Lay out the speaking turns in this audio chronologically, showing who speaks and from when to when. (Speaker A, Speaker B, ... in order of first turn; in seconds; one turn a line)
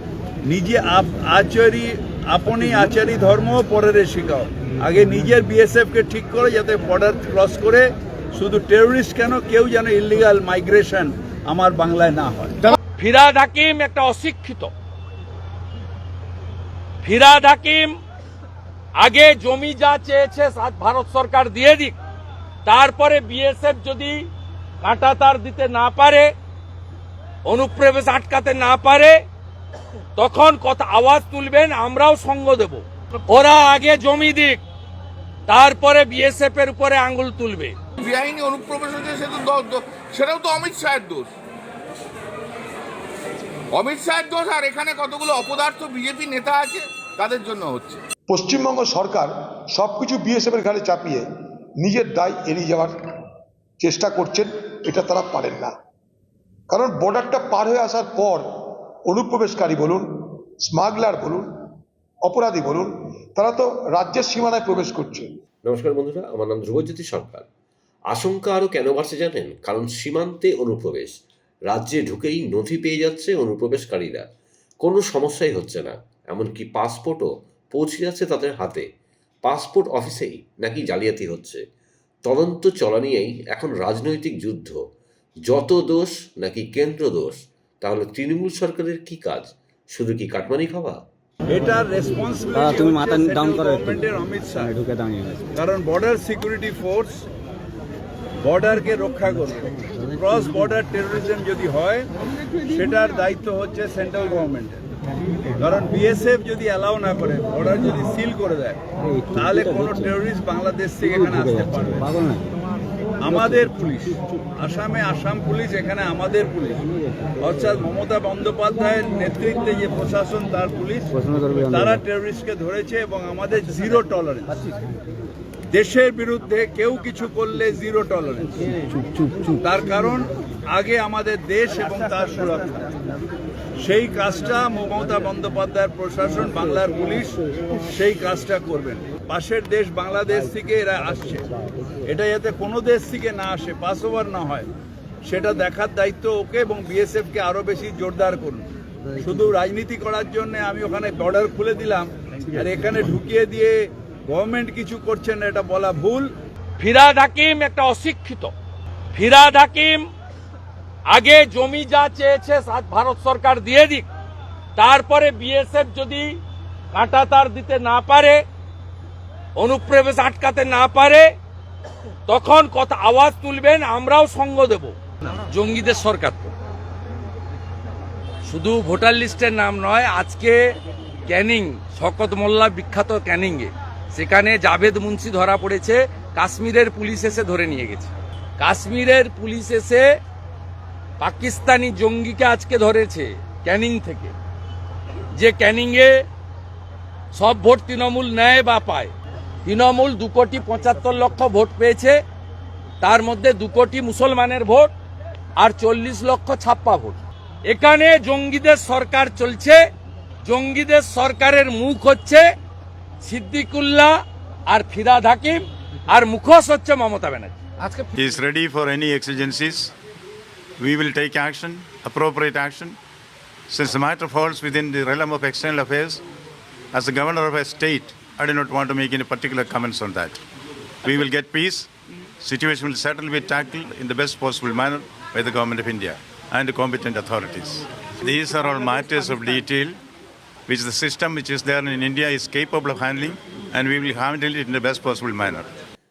Speaker A: 0.5-12.7
Speaker B: 13.0-14.7
Speaker B: 17.0-17.9
Speaker B: 19.0-22.0
Speaker B: 22.7-24.2
Speaker B: 24.8-26.3
Speaker B: 27.5-29.2
Speaker B: 30.2-34.6
Speaker B: 35.5-37.8
Speaker C: 38.0-41.3
Speaker C: 43.7-48.0
Speaker D: 48.3-51.3
Speaker D: 51.8-53.0
Speaker D: 53.8-55.7
Speaker D: 56.7-61.5
Speaker D: 62.2-65.4
Speaker E: 65.6-67.5
Speaker E: 68.1-71.1
Speaker E: 71.7-74.3
Speaker E: 74.8-78.8
Speaker E: 79.4-81.6
Speaker E: 82.2-84.8
Speaker E: 85.5-91.0
Speaker A: 91.5-94.8
Speaker F: 92.6-94.0
Speaker F: 94.7-95.5
Speaker A: 95.5-97.3
Speaker A: 98.4-102.1
Speaker A: 102.7-104.8
Speaker A: 105.6-108.8
Speaker F: 109.1-110.0
Speaker A: 109.3-112.3
Speaker F: 111.1-112.5
Speaker A: 113.2-124.5
Speaker F: 121.1-122.0
Speaker A: 125.7-128.7
Speaker F: 129.0-129.6
Speaker A: 129.6-132.9
Speaker A: 133.8-137.4
Speaker A: 137.9-141.5
Speaker A: 142.0-144.7
Speaker A: 145.2-156.3
Speaker B: 156.8-158.5
Speaker B: 159.1-160.1
Speaker B: 161.1-164.1
Speaker B: 164.8-166.4
Speaker B: 166.9-168.4
Speaker B: 169.6-171.3
Speaker B: 172.3-175.0
Speaker B: 175.5-176.5
Speaker B: 178.5-180.7
Speaker B: 181.3-190.1
Speaker B: 191.2-194.3
Speaker B: 195.4-196.2
Speaker B: 197.3-199.1
Speaker B: 199.7-202.2
Speaker B: 203.0-204.9
Speaker B: 205.6-209.8
Speaker B: 210.4-212.5
Speaker B: 213.2-218.1
Speaker G: 218.2-219.9
Speaker G: 220.8-223.0
Speaker G: 223.7-226.2
Speaker G: 226.9-230.4
Speaker G: 231.0-231.9
Speaker G: 232.4-240.0
Speaker G: 240.7-245.7